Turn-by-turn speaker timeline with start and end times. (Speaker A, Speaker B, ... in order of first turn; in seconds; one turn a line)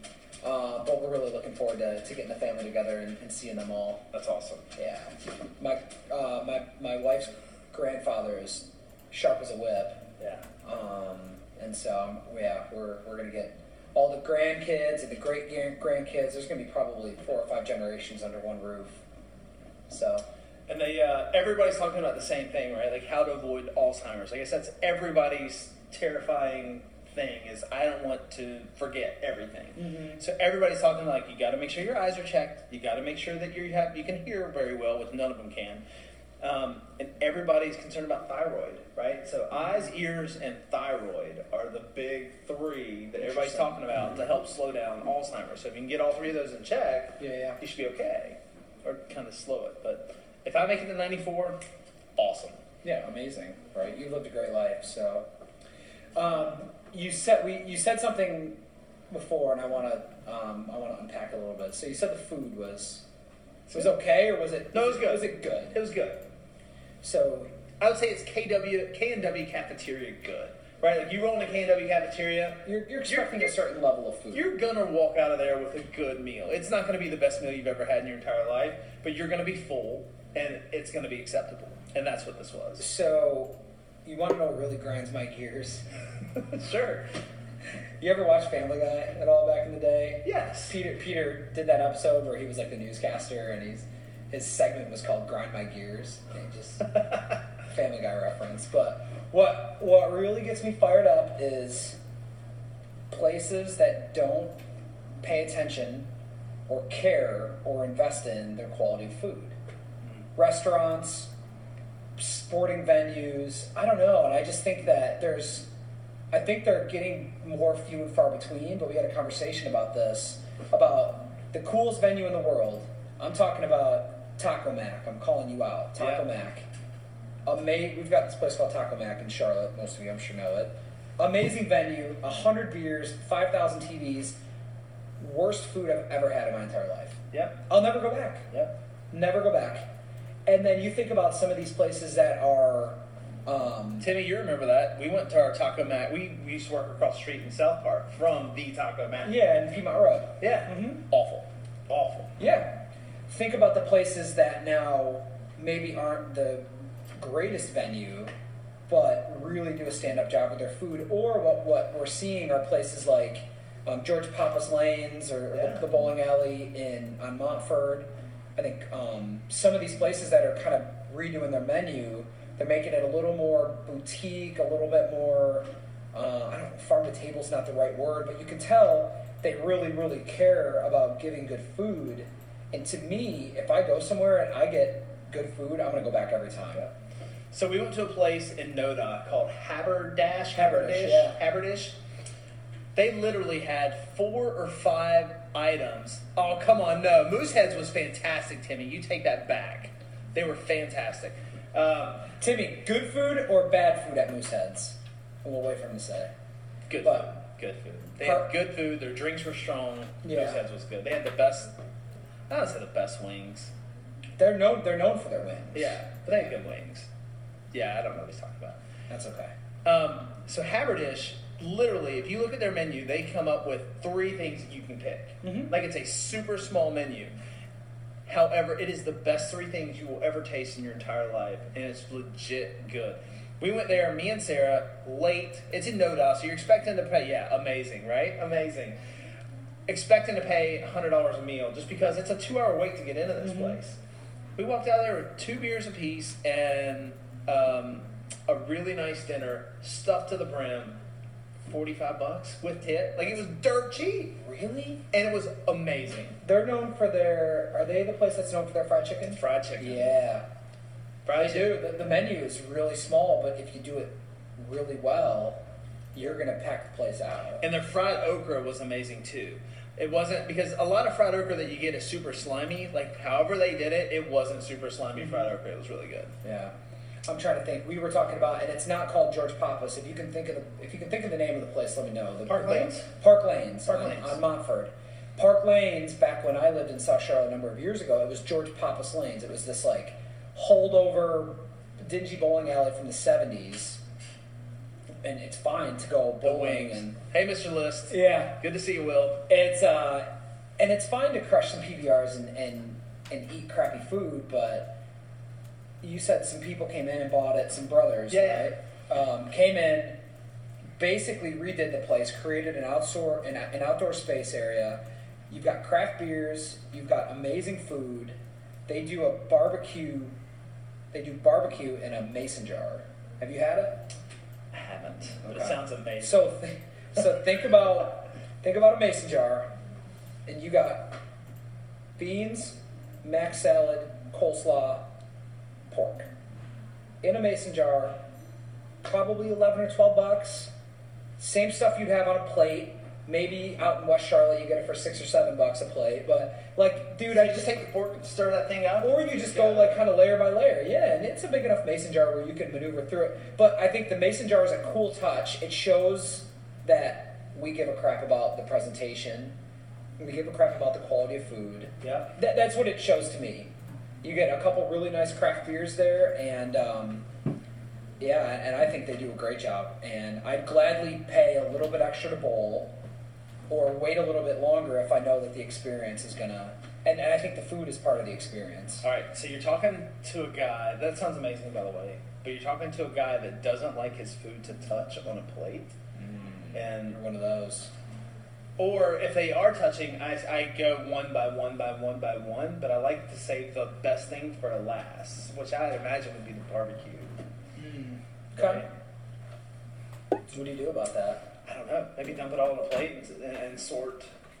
Speaker A: 0.4-4.0
Speaker B: 4.1-4.7
Speaker A: 4.8-10.1
Speaker A: 10.6-19.0
Speaker A: 19.9-20.2
Speaker B: 20.7-35.8
Speaker A: 29.8-30.2
Speaker B: 36.4-51.6
Speaker A: 43.2-43.8
Speaker A: 47.2-47.6
Speaker B: 52.2-52.6
Speaker A: 52.8-55.3
Speaker A: 56.1-58.6
Speaker A: 59.1-63.0
Speaker A: 63.7-65.8
Speaker B: 64.7-66.2
Speaker A: 67.0-67.5
Speaker B: 67.8-73.5
Speaker A: 72.6-74.4
Speaker B: 74.3-82.8
Speaker A: 82.8-85.8
Speaker B: 86.4-87.1
Speaker A: 88.0-97.0
Speaker B: 90.2-90.8
Speaker A: 97.7-102.0
Speaker A: 103.1-104.6
Speaker A: 105.2-106.1
Speaker A: 106.7-109.5
Speaker A: 110.3-111.3
Speaker A: 112.2-115.7
Speaker A: 116.3-126.7
Speaker B: 126.0-126.2
Speaker A: 127.5-134.4
Speaker A: 135.2-138.5
Speaker B: 137.3-137.6
Speaker A: 139.1-139.9
Speaker A: 140.4-144.1
Speaker B: 144.0-149.3
Speaker A: 149.2-151.1
Speaker B: 150.4-152.3
Speaker A: 152.4-158.3
Speaker A: 158.9-186.9
Speaker B: 165.5-165.8
Speaker B: 187.5-192.0
Speaker A: 190.5-191.4
Speaker B: 192.9-202.3
Speaker A: 202.4-206.3
Speaker B: 206.9-211.7
Speaker A: 207.0-207.3
Speaker A: 208.2-208.5
Speaker A: 210.2-210.6
Speaker B: 212.5-213.7
Speaker A: 214.4-216.0
Speaker B: 215.7-217.1
Speaker B: 217.7-218.8
Speaker A: 219.1-219.5
Speaker B: 219.8-227.3
Speaker A: 225.4-225.7
Speaker B: 228.2-239.0
Speaker B: 239.9-244.0
Speaker B: 244.6-251.0
Speaker B: 251.6-254.4
Speaker A: 254.4-255.1
Speaker B: 255.1-256.4
Speaker A: 256.4-260.4
Speaker B: 259.3-260.2
Speaker B: 261.2-261.8
Speaker A: 261.3-265.6
Speaker A: 266.1-267.6
Speaker B: 267.6-276.3
Speaker A: 276.4-276.7
Speaker A: 277.2-294.0
Speaker B: 282.5-283.1
Speaker B: 283.9-284.4
Speaker A: 295.2-297.2
Speaker B: 296.4-299.5
Speaker A: 298.1-298.6
Speaker A: 299.5-305.0
Speaker A: 306.0-310.2
Speaker B: 308.3-308.7
Speaker A: 311.0-320.3
Speaker A: 321.1-324.1
Speaker B: 324.7-326.5
Speaker A: 325.4-329.7
Speaker A: 330.4-331.2
Speaker A: 332.2-335.1
Speaker A: 335.9-336.3
Speaker A: 337.2-338.2
Speaker A: 339.0-340.7
Speaker A: 341.4-347.7
Speaker B: 347.3-350.0
Speaker A: 349.0-359.5
Speaker A: 360.2-367.3
Speaker B: 362.0-362.3
Speaker A: 368.2-372.9
Speaker A: 373.7-379.0
Speaker B: 379.0-385.9
Speaker A: 386.1-387.9
Speaker B: 386.7-387.2
Speaker B: 388.8-397.4
Speaker A: 397.8-398.9
Speaker B: 398.6-398.9
Speaker A: 400.5-401.5
Speaker B: 401.6-404.3